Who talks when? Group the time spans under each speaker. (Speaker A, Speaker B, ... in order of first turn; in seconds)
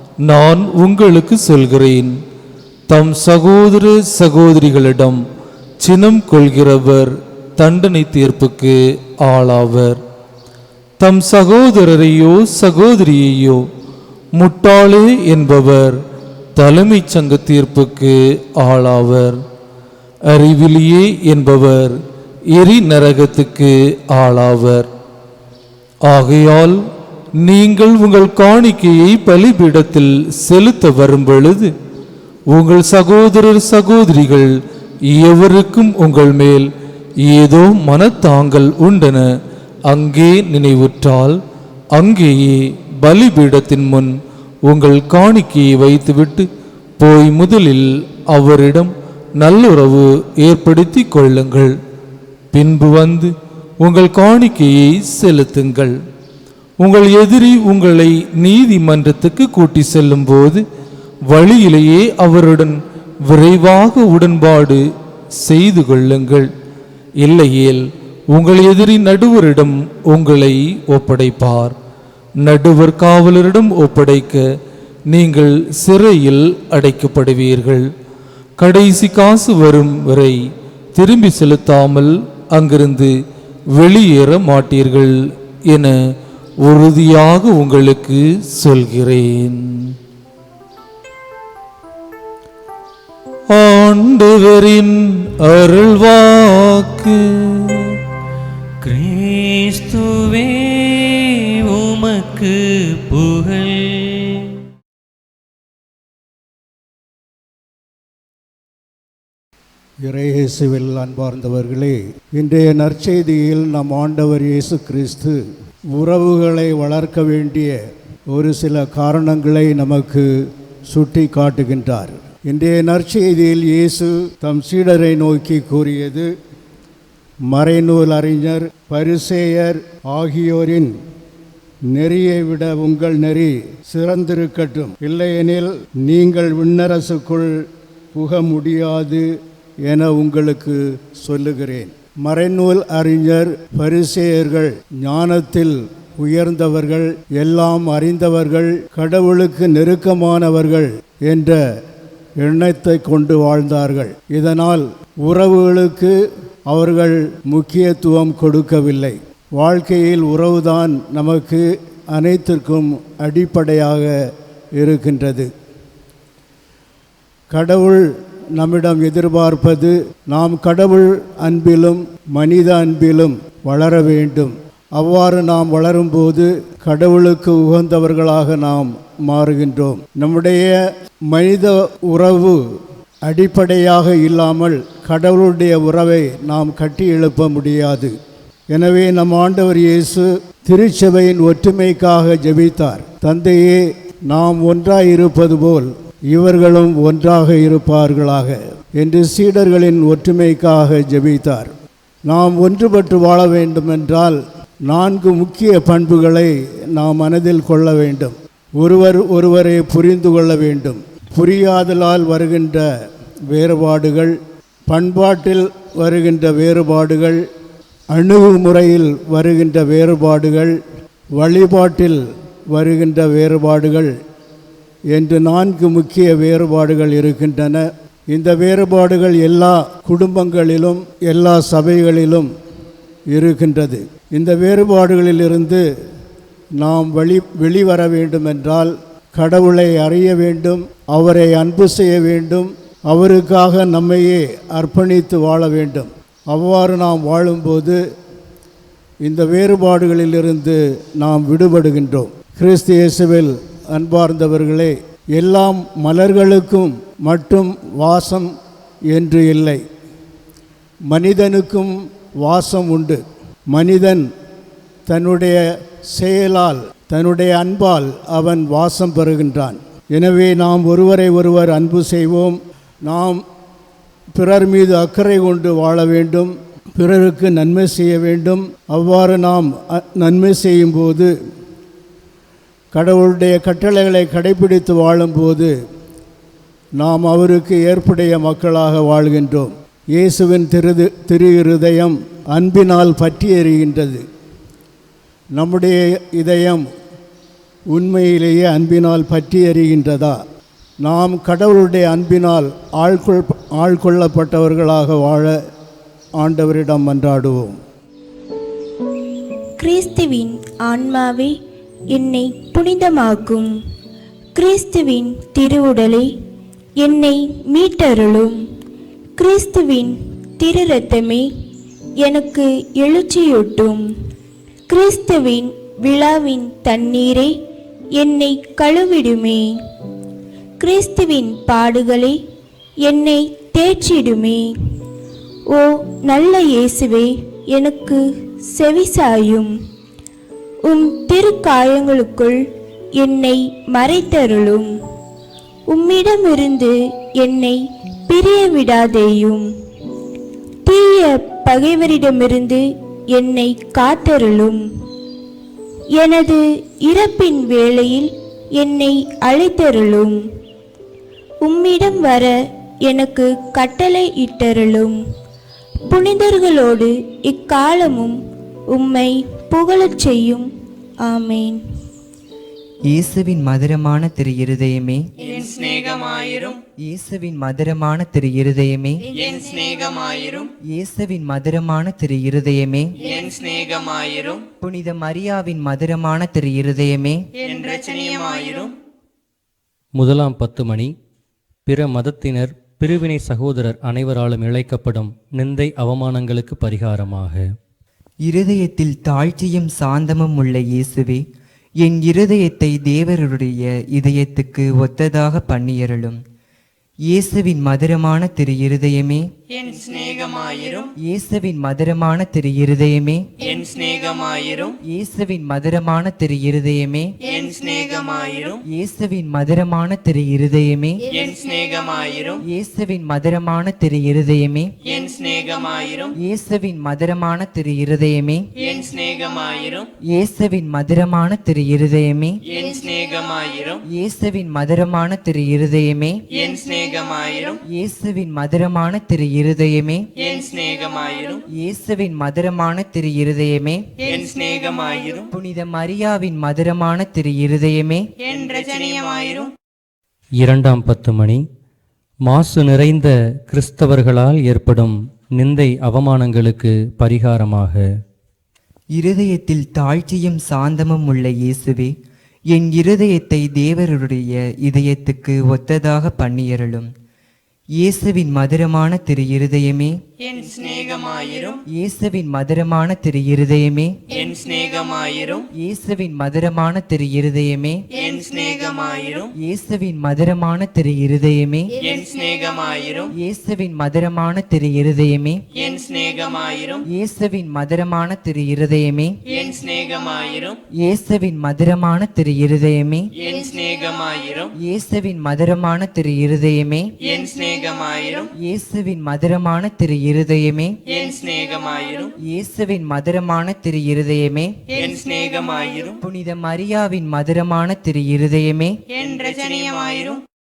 Speaker A: 0.2-2.1, 2.9-5.2, 5.8-10.0, 11.0-13.6, 14.3-16.0, 16.6-19.4, 20.3-21.9, 22.5-24.9, 26.0-26.8, 27.4-31.7, 32.5-34.5, 35.1-36.7, 37.2-39.2, 39.9-41.4, 41.9-44.1, 44.6-46.5, 47.0-51.7, 52.5-53.3, 53.8-55.9, 56.8-60.6, 61.3-62.7, 63.3-64.8, 65.4-66.5, 67.2-71.7, 72.4-74.4, 75.1-77.8, 78.6-80.4, 80.9-83.1, 83.7-85.1, 86.6-89.9, 93.5-98.0
Speaker B: 98.8-101.0, 101.7-102.5, 103.1-103.8, 390.1-391.1, 391.9-397.7, 450.6-451.6, 452.4-458.1
Speaker C: 110.0-115.4, 115.9-117.8, 118.3-120.3, 120.9-126.3, 127.5-130.9, 131.9-139.2, 139.9-151.6, 152.4-156.1, 156.7-161.6, 162.1-164.1, 164.8-165.5, 167.5-168.0, 168.6-180.8, 181.3-182.6, 183.2-188.1, 188.7-201.7, 202.3-212.8, 213.5-214.3, 214.9-217.4, 218.1-220.8, 221.4-222.2, 222.7-224.1, 225.1-232.5, 233.3-235.8, 236.8-248.0, 249.2-258.5, 259.1-259.8, 261.1-263.2, 263.7-264.2, 265.1-265.6, 266.1-273.4, 274.3-281.3, 282.9-285.7, 287.0-294.2, 295.6-296.8, 297.9-300.4, 301.0-305.5, 306.4-307.8
Speaker D: 309.8-311.5, 312.1-313.7, 314.5-316.3, 317.0-318.5, 319.4-321.4, 322.2-324.0, 324.9-327.5, 328.2-329.7, 330.8-332.3, 333.0-334.7, 335.7-338.2, 338.7-339.7, 340.9-342.6, 343.2-344.9, 345.9-349.6, 350.9-352.8, 353.3-354.8, 356.2-360.4, 361.6-362.5, 363.1-365.1, 366.1-368.3, 368.9-370.6, 371.2-371.8
Speaker E: 373.1-375.2, 377.0-379.2, 380.9-383.1, 384.8-387.4, 398.4-401.4, 402.0-406.4, 407.3-409.4, 411.2-413.5, 415.0-417.3, 418.9-421.2, 422.6-424.9, 426.4-428.7, 430.3-432.6, 434.1-436.4, 437.9-440.3, 441.7-444.1, 445.5-448.3, 459.1-462.1, 462.7-467.1, 468.0-470.1, 471.9-474.2, 475.7-478.0, 479.6-481.9, 483.3-485.6, 487.1-489.4, 491.0-493.3, 494.8-497.1, 498.6-501.0, 502.4-504.8, 506.2-508.9
Speaker F: 375.4-376.8, 379.3-380.7, 383.2-384.6, 387.6-388.9, 409.7-411.1, 413.6-415.0, 417.4-418.8, 421.3-422.6, 425.0-426.4, 428.8-430.1, 432.7-434.0, 436.5-437.8, 440.4-441.6, 444.2-445.5, 448.4-449.7, 470.4-471.8, 474.3-475.6, 478.1-479.5, 482.0-483.3, 485.7-487.0, 489.5-490.8, 493.4-494.7, 497.2-498.5, 501.1-502.3, 504.9-506.2, 509.1-510.4